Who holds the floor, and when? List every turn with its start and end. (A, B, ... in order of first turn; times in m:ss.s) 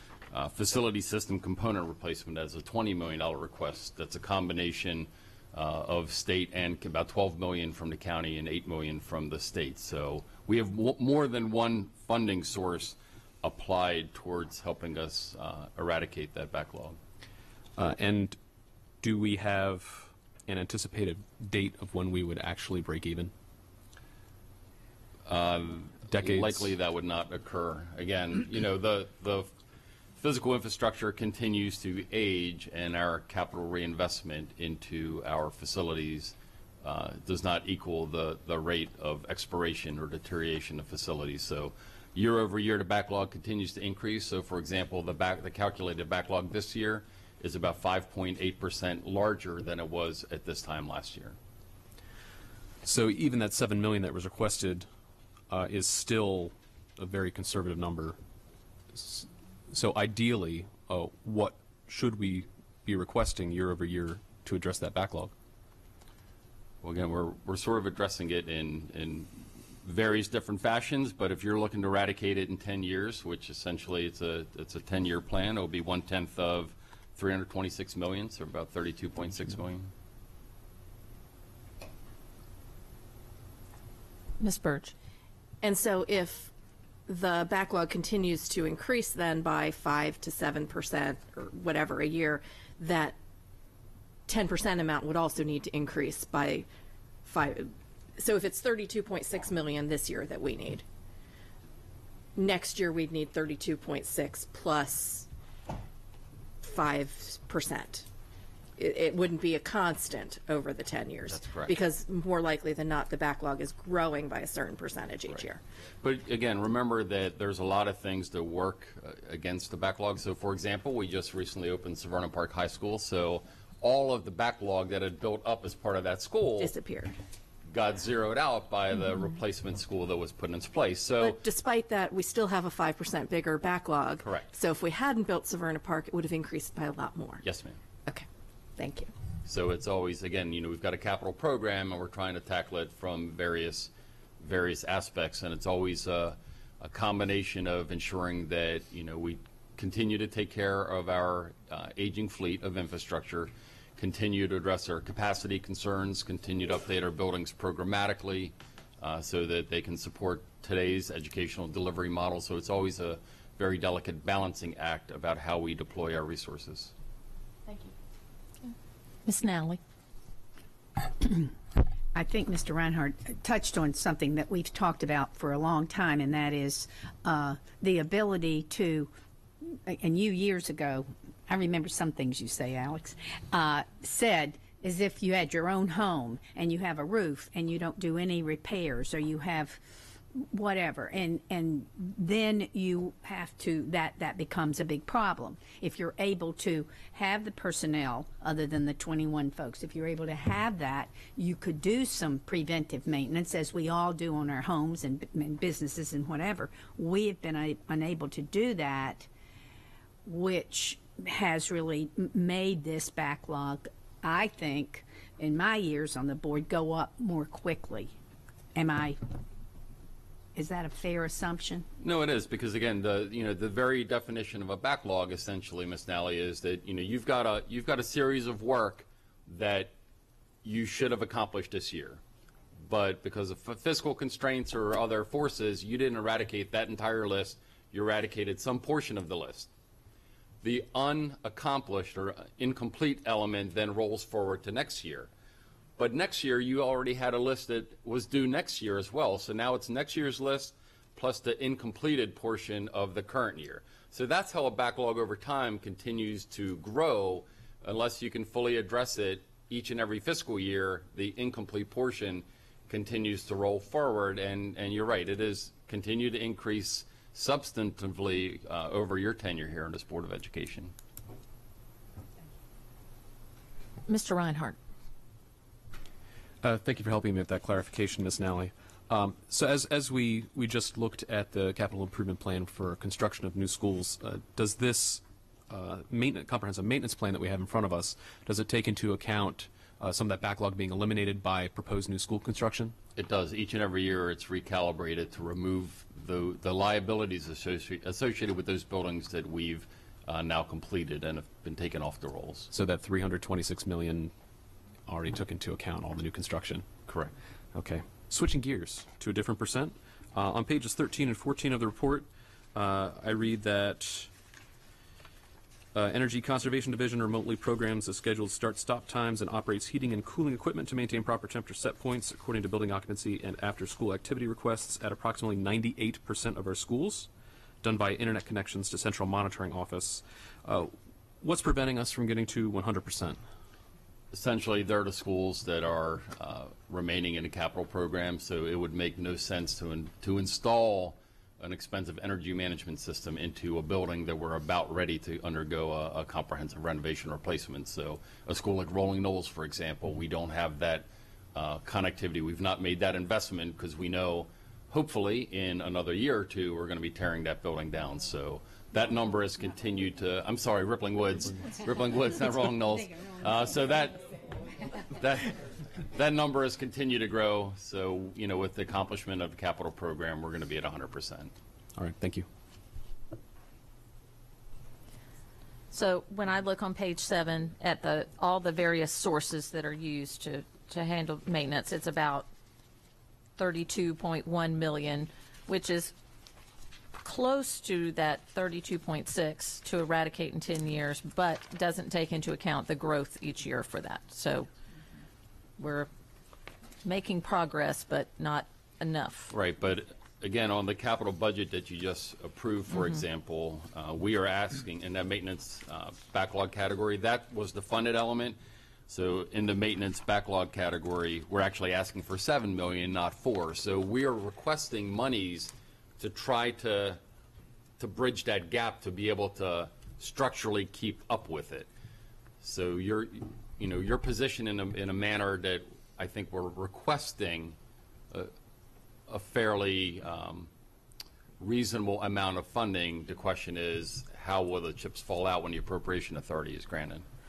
0:00.3-0:17.0 A
0:17.8-0:18.4 B
0:19.0-0:23.3 B
0:25.3-0:29.5 A
0:26.1-0:26.7 B
0:30.2-0:51.4 A
0:52.8-0:54.9 B
0:55.5-0:58.2 B
0:58.9-1:05.3 B
1:06.8-1:19.9 A
1:24.4-1:24.9 C
1:25.6-1:26.5 D
1:27.1-1:33.2 D
1:34.3-1:36.6 D
1:37.2-1:40.8 D
1:42.3-1:45.3 D
1:46.6-1:48.1 D
1:48.8-1:55.6 D
1:51.2-1:51.8 A
1:56.0-2:06.8 A
2:06.6-2:07.1 D
2:07.7-2:11.4 A
2:11.2-2:17.4 D
2:14.2-2:14.5 A
2:17.4-2:17.8 A
2:18.8-2:19.1 D
2:19.4-2:46.9 A
2:49.2-2:49.8 C
2:51.2-2:51.5 E
2:52.1-3:09.8 E
3:10.3-3:29.3 E
3:30.2-3:38.2 E
3:38.7-3:39.2 E
3:40.5-3:41.8 E
3:42.0-3:49.9 A
3:50.6-3:52.2 A
3:52.8-3:59.7 A
4:00.6-4:05.3 A
4:06.0-4:30.9 A
4:34.1-4:34.8 C
4:36.6-4:53.0 B
4:53.1-5:02.7 A
5:02.7-5:04.3 B
5:05.1-5:07.0 B
5:07.0-5:07.3 A
5:07.7-5:14.3 B
5:15.9-5:27.3 B
5:27.8-5:33.4 B
5:34.3-6:04.2 A
6:05.1-6:05.6 A
6:06.1-6:11.5 A
6:11.9-6:12.5 B
6:15.9-6:22.5 C
6:23.6-6:26.1 C
6:27.2-6:34.7 C
6:35.8-6:36.1 C
6:37.0-6:39.5 C
6:39.5-6:48.6 A
6:49.1-6:57.2 A
6:58.0-7:01.9 A
7:02.6-7:07.8 A
7:09.3-7:10.7 A
7:11.6-7:17.2 A